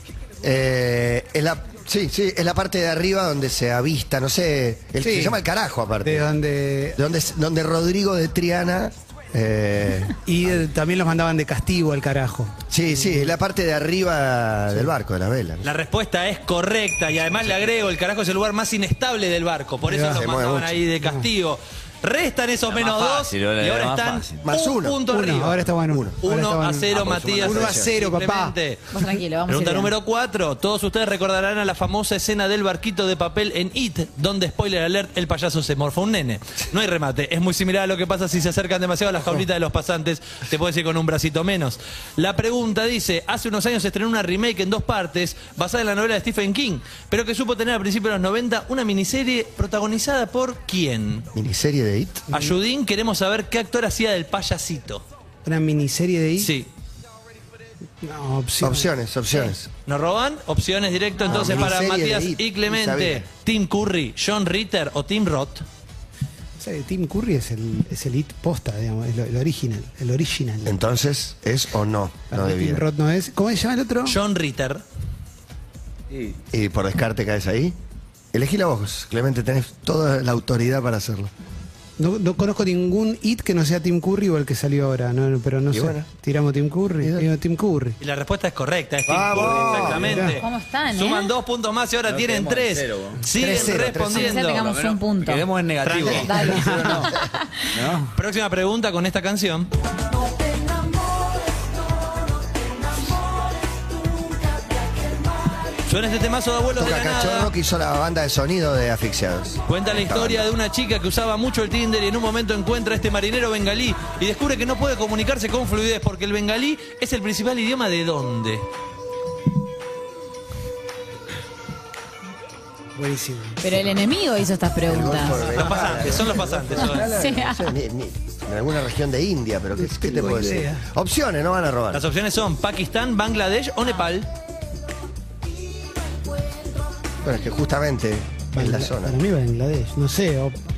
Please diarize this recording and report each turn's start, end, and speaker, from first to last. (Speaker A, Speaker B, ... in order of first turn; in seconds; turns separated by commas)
Speaker A: 0.4-6.3, Speaker B: 5.0-5.4, Speaker B: 6.0-7.0, Speaker A: 7.0-10.5, Speaker B: 10.2-13.3, Speaker A: 12.7-15.7, Speaker C: 15.6-25.7, Speaker B: 19.9-20.2, Speaker A: 20.1-20.8, Speaker B: 21.0-21.2, Speaker D: 22.7-24.5, Speaker A: 24.4-25.0, Speaker B: 25.1-28.5, Speaker A: 25.9-26.1, Speaker C: 26.2-28.9, Speaker D: 27.0-27.6, Speaker A: 27.4-27.9, Speaker E: 28.9-29.9, Speaker C: 29.5-51.3, Speaker A: 51.3-52.2, Speaker C: 52.3-55.0, Speaker B: 55.4-56.5, Speaker C: 56.4-56.7, Speaker B: 58.0-58.9, Speaker A: 58.6-59.7, Speaker C: 59.9-65.7, Speaker A: 61.2-63.2, Speaker B: 66.6-70.8, Speaker A: 70.6-72.8, Speaker B: 72.3-74.2, Speaker C: 74.0-74.8, Speaker A: 76.5-77.8, Speaker A: 78.3-81.3, Speaker B: 82.0-88.0, Speaker A: 85.7-86.1, Speaker A: 87.0-87.3, Speaker C: 88.0-94.7, Speaker A: 89.1-90.3, Speaker D: 89.3-90.0, Speaker B: 90.0-90.4, Speaker E: 90.4-91.3, Speaker D: 92.0-93.2, Speaker A: 93.3-94.3, Speaker E: 94.1-95.5, Speaker D: 94.4-97.2, Speaker C: 95.8-96.5, Speaker E: 96.0-97.2, Speaker B: 96.6-96.9, Speaker D: 97.7-98.1, Speaker C: 98.1-99.7, Speaker C: 105.8-107.5, Speaker A: 106.7-110.5, Speaker C: 109.7-118.7, Speaker B: 123.0-123.9, Speaker E: 123.6-125.5, Speaker A: 124.8-132.1, Speaker C: 125.5-127.1, Speaker E: 126.9-127.7, Speaker B: 129.8-130.8, Speaker C: 131.9-134.3, Speaker A: 137.2-139.2, Speaker B: 138.5-140.6